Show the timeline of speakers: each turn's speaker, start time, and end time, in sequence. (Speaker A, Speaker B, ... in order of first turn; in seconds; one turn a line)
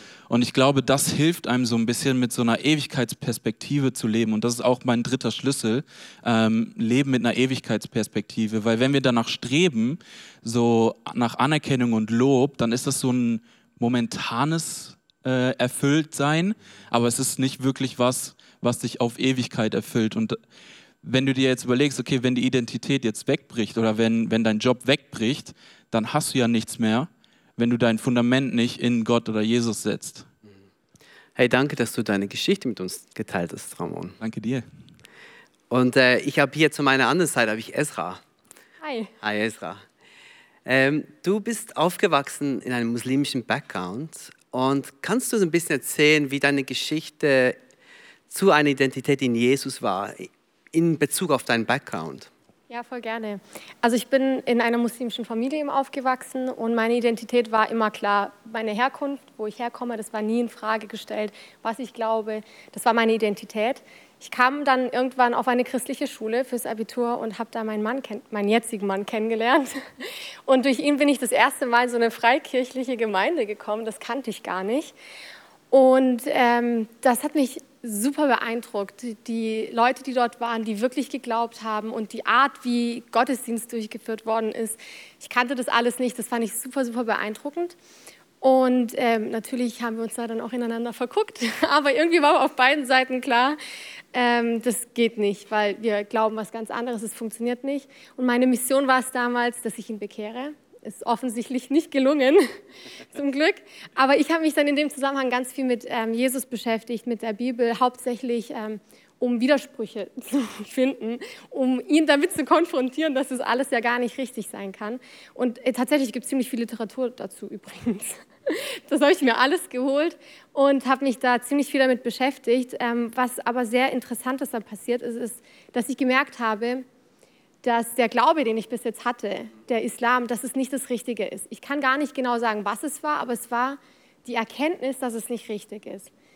Speaker A: 0.3-20.4
Speaker A: 21.0-30.3
Speaker B: 31.4-34.2
Speaker A: 34.2-34.6
Speaker B: 35.7-38.2
Speaker C: 38.8-39.1
Speaker B: 39.2-39.8
Speaker B: 40.6-47.6
Speaker B: 48.3-52.3
Speaker C: 52.7-74.9
Speaker C: 75.7-87.8
Speaker C: 88.4-93.6
Speaker C: 94.1-102.5
Speaker C: 103.1-126.8
Speaker C: 127.6-136.1